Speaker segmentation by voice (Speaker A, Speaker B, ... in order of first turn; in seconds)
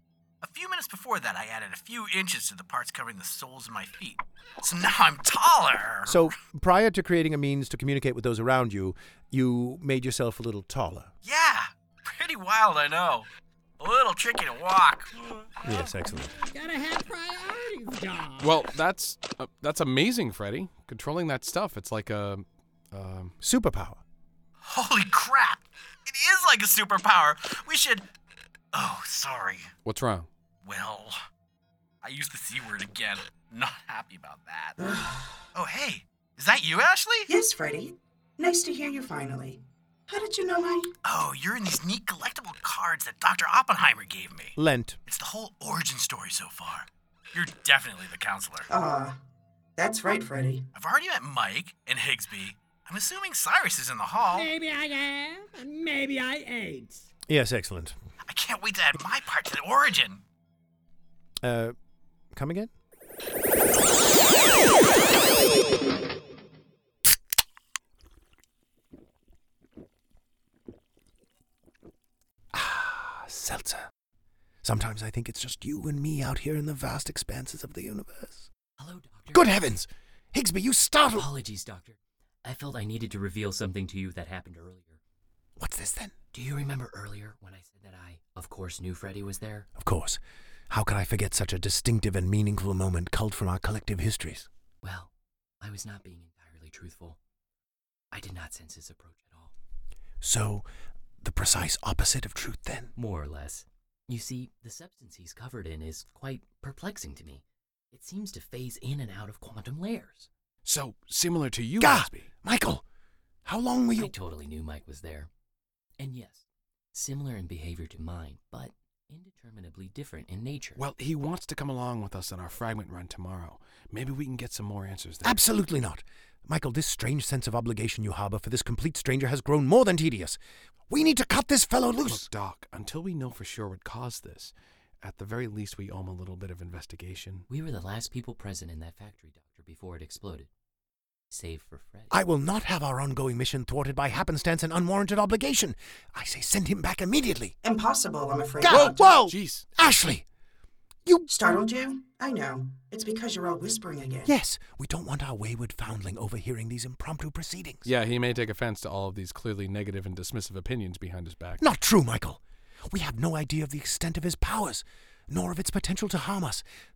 Speaker A: 0.4-6.3, 11.2-13.3, 13.8-15.1, 24.6-28.1, 28.7-29.7, 30.6-31.2, 32.0-34.8, 35.5-37.3, 41.0-48.7, 50.7-54.5, 58.3-60.2
Speaker B: 6.1-11.1, 15.6-16.3, 23.4-24.0, 44.6-45.0, 57.3-58.0, 61.4-61.8, 62.3-62.7, 72.5-73.9, 74.6-78.5, 79.3-81.3, 85.6-86.1, 89.8-94.5, 100.2-100.7, 101.2-102.9, 111.8-112.8, 113.5-114.1, 125.2-130.4, 130.9-132.3, 142.1-147.6, 148.6-150.2, 154.3-157.9, 161.6-166.6
Speaker C: 16.3-18.6, 54.3-57.1
Speaker D: 18.4-23.3, 29.9-30.3, 110.7-112.3, 120.8-125.4, 132.1-137.4, 148.7-149.7, 157.8-161.6
Speaker E: 34.8-35.2, 37.3-40.9, 48.7-49.2, 49.8-50.7, 147.6-149.0, 151.3-154.3
Speaker F: 78.8-79.6, 81.2-85.0, 86.3-89.7, 94.8-95.1, 95.6-97.2, 98.1-99.5, 103.0-110.3, 114.0-115.3, 116.0-120.8, 137.5-140.5, 141.3-142.1